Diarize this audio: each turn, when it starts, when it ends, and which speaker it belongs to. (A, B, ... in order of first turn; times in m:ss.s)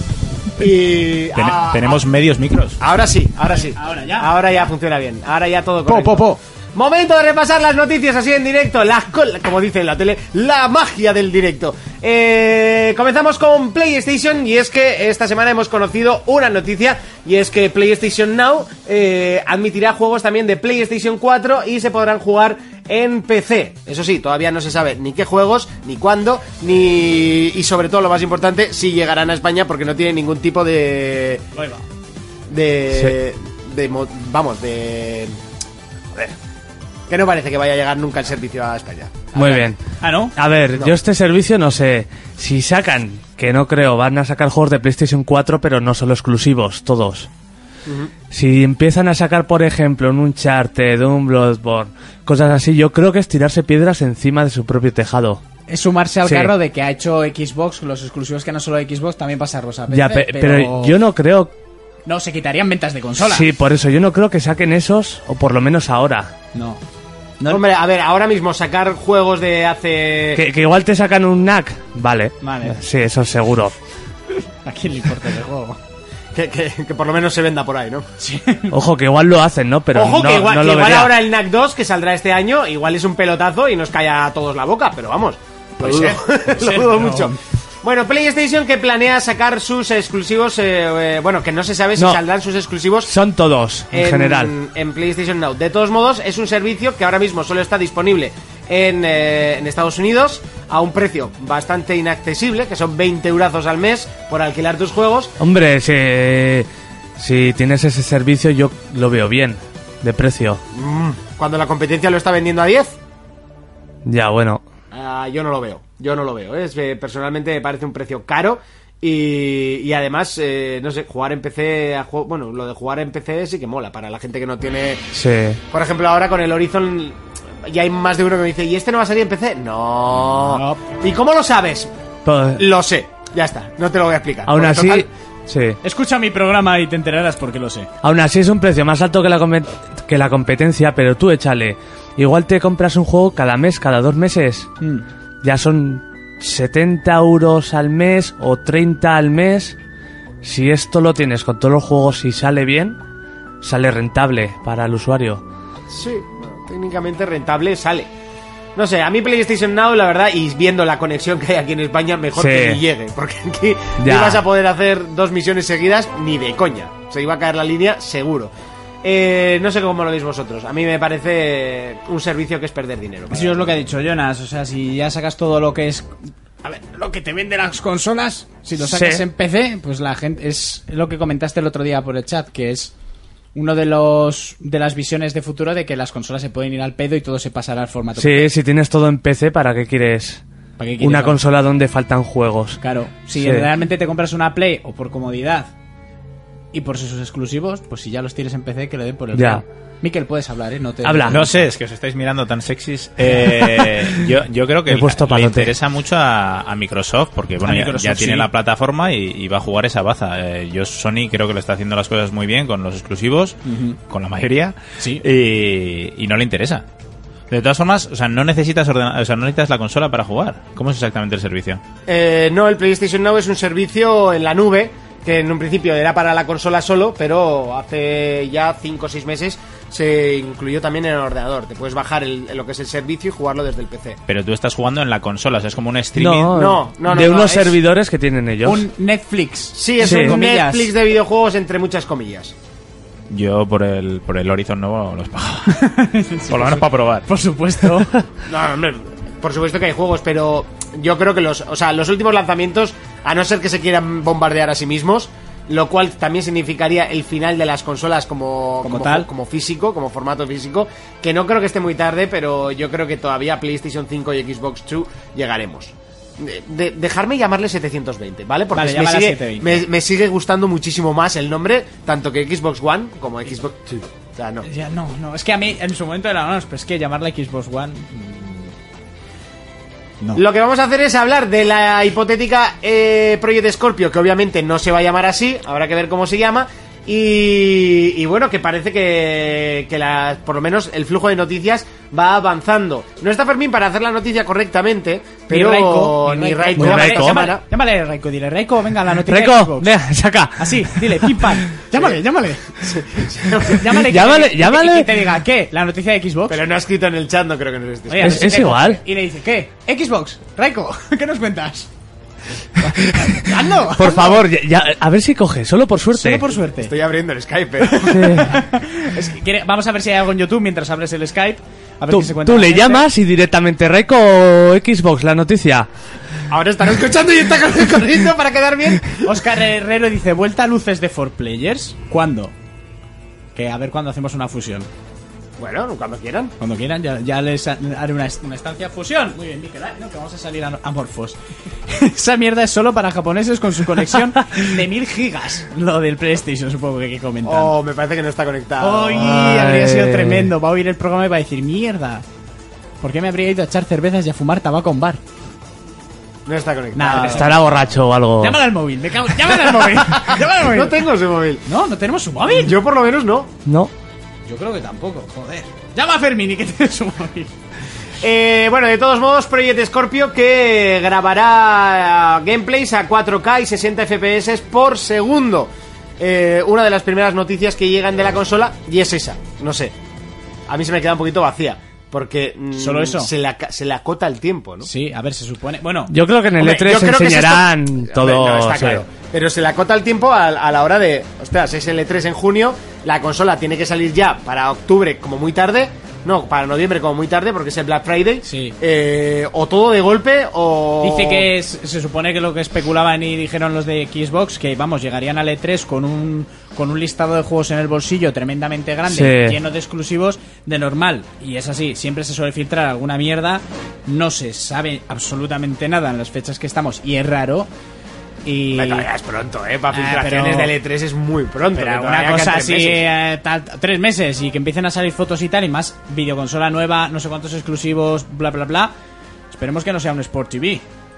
0:00.6-0:02.0 A
0:01.4-0:02.8 B
0:02.8-0:31.4 A
0:03.7-0:04.3 C
0:05.9-0:06.4 C
0:31.6-0:31.8 C
0:32.5-0:35.4 A
0:37.1-0:39.4 A
0:39.3-0:40.4 C
0:39.4-0:39.8 D
0:40.4-0:47.3 D
0:40.7-0:41.0 A
0:47.9-0:48.1 A
0:48.3-0:55.4 D
0:55.7-1:00.9 C
0:56.2-0:56.5 D
0:59.9-1:01.5 D
1:02.1-1:03.5 C
1:03.2-1:06.3 D
1:06.5-1:06.8 C
1:07.5-1:10.4 A
1:10.4-1:13.8 D
1:12.4-1:12.8 C
1:14.6-1:15.8 C
1:16.3-1:18.1 A
1:18.2-1:18.8 C
1:18.7-1:21.1 D
1:19.9-1:33.2 A
1:25.8-1:27.4 C
1:33.1-1:34.5 D
1:33.9-1:45.4 A
1:45.4-1:50.6 D
1:50.7-1:53.0 A
1:54.1-1:54.6 D
1:54.9-2:05.1 A
2:05.1-2:05.6 D
2:05.7-2:11.9 A
2:10.5-2:10.8 C
2:12.3-2:12.6 D
2:12.5-2:15.1 A
2:14.5-2:15.8 D
2:15.8-2:17.9 C
2:18.0-2:24.7 D
2:25.4-2:29.8 D
2:30.4-2:33.0 D
2:33.6-2:35.4 D
2:35.9-2:38.1 A
2:38.8-2:48.5 A
2:42.4-2:42.8 D
2:44.0-2:44.4 D
2:49.0-2:53.8 A
2:53.3-2:56.1 C
2:56.6-3:02.9 C
2:58.8-2:59.2 D
3:03.6-3:08.5 C
3:08.2-3:10.4 D
3:10.8-3:11.4 C
3:11.0-3:12.8 D
3:12.8-3:15.7 C
3:13.4-3:13.7 D
3:16.7-3:21.6 C
3:19.3-3:19.6 D
3:21.0-3:21.4 D
3:21.3-3:36.8 B
3:24.9-3:25.7 D
3:27.6-3:28.5 C
3:33.6-3:34.0 C
3:35.0-3:35.2 C
3:37.5-3:41.8 B
3:42.1-3:54.2 A
3:54.3-3:56.6 B
3:56.2-3:58.9 D
3:56.5-3:57.8 A
3:58.6-4:00.9 C
3:59.7-4:02.6 A
4:00.0-4:00.4 D
4:03.3-4:05.9 B
4:05.7-4:08.2 C
4:06.5-4:07.3 B
4:08.5-4:34.7 A
4:18.8-4:19.3 C
4:28.7-4:29.9 C
4:34.6-4:38.7 C
4:40.4-4:57.6 A
4:55.5-4:59.9 C
4:56.8-4:57.4 D
4:59.2-5:01.4 D
5:00.6-5:03.0 C
5:01.9-5:02.2 A
5:02.8-5:04.1 A
5:03.7-5:06.6 C
5:04.0-5:05.2 D
5:06.5-5:08.7 A
5:08.1-5:11.9 C
5:08.2-5:09.0 D
5:12.8-5:14.4 C
5:13.9-5:16.5 D
5:16.1-5:17.0 C
5:16.8-5:18.4 A
5:17.8-5:23.1 C
5:18.1-5:18.6 D
5:22.1-5:25.9 D
5:26.5-5:29.3 A
5:29.2-5:32.5 C
5:33.6-5:34.9 C
5:35.6-5:36.5 A
5:36.6-5:47.8 C
5:47.4-5:49.1 A
5:48.8-5:52.2 C
5:49.1-5:50.5 D
5:53.0-5:55.2 C
5:56.5-5:57.6 A
5:57.0-5:57.8 C
5:57.2-5:58.6 D
5:58.4-6:01.0 C
6:00.2-6:01.6 A
6:01.7-6:02.8 C
6:02.5-6:03.5 A
6:03.7-6:03.9 D
6:04.5-6:07.5 C
6:08.2-6:20.0 A
6:20.7-6:24.9 A
6:22.8-6:23.3 C
6:24.8-6:26.1 C
6:26.1-6:29.0 D
6:26.6-6:41.5 A
6:38.4-6:38.8 C
6:41.0-6:57.7 C
6:49.1-6:49.6 D
6:58.4-6:59.1 C
6:58.7-7:03.1 A
6:59.9-7:00.8 C
7:01.7-7:08.9 C
7:09.5-7:10.8 C